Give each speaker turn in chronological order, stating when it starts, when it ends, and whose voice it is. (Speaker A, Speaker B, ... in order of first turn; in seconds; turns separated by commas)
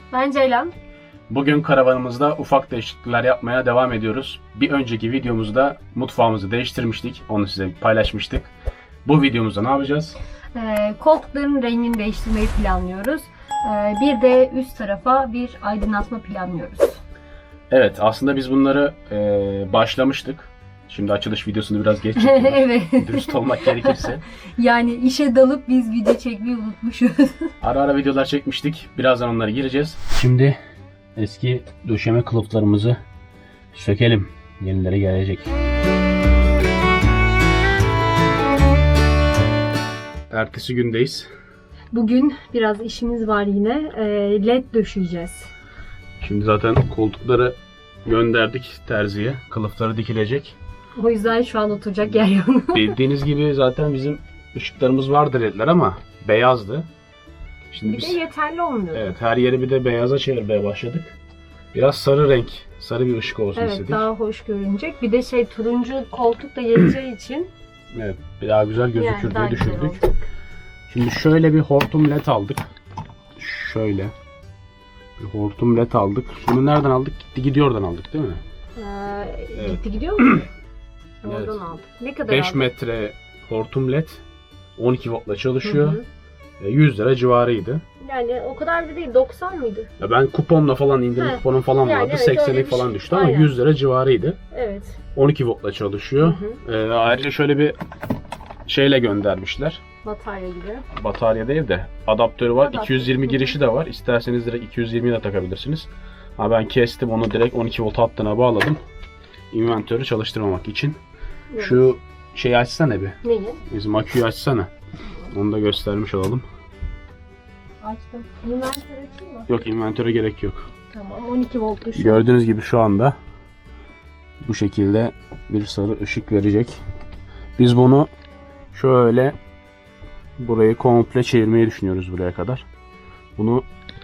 Speaker A: 0.1-0.7, Speaker B: 1.3-8.5, Speaker B: 9.0-10.2, Speaker A: 10.5-17.0, Speaker B: 17.7-24.2, Speaker A: 22.1-27.5, Speaker B: 27.6-30.6, Speaker B: 31.1-33.0, Speaker B: 33.7-35.5, Speaker B: 40.3-41.3, Speaker A: 41.9-45.5, Speaker B: 46.2-50.6, Speaker A: 51.0-53.0, Speaker B: 52.7-56.9, Speaker B: 57.7-58.2, Speaker A: 57.8-59.1, Speaker B: 58.9-61.1, Speaker B: 61.7-64.1, Speaker A: 63.5-67.5, Speaker B: 67.9-70.0, Speaker A: 68.9-70.1, Speaker B: 70.9-72.7, Speaker B: 73.4-74.1, Speaker B: 75.2-78.4, Speaker A: 78.8-80.5, Speaker B: 79.5-80.5, Speaker B: 81.2-81.6, Speaker A: 81.2-82.7, Speaker B: 82.3-84.2, Speaker B: 84.8-86.0, Speaker A: 85.6-86.0, Speaker B: 86.6-87.8, Speaker A: 88.0-89.9, Speaker B: 90.0-94.4, Speaker A: 91.2-93.5, Speaker A: 94.5-95.0, Speaker B: 95.1-97.8, Speaker A: 96.2-96.6, Speaker B: 98.7-99.8, Speaker A: 100.0-100.8, Speaker B: 101.0-108.8, Speaker A: 102.6-103.6, Speaker B: 109.5-111.0, Speaker A: 111.5-111.9, Speaker B: 111.6-113.2, Speaker A: 113.2-113.6, Speaker B: 113.7-114.7, Speaker B: 115.3-116.5, Speaker A: 117.8-119.5, Speaker B: 119.5-120.6, Speaker A: 120.9-122.3, Speaker B: 121.9-123.2, Speaker B: 124.4-126.8, Speaker B: 127.6-128.1, Speaker B: 128.7-129.3, Speaker B: 130.4-132.7, Speaker B: 133.3-133.7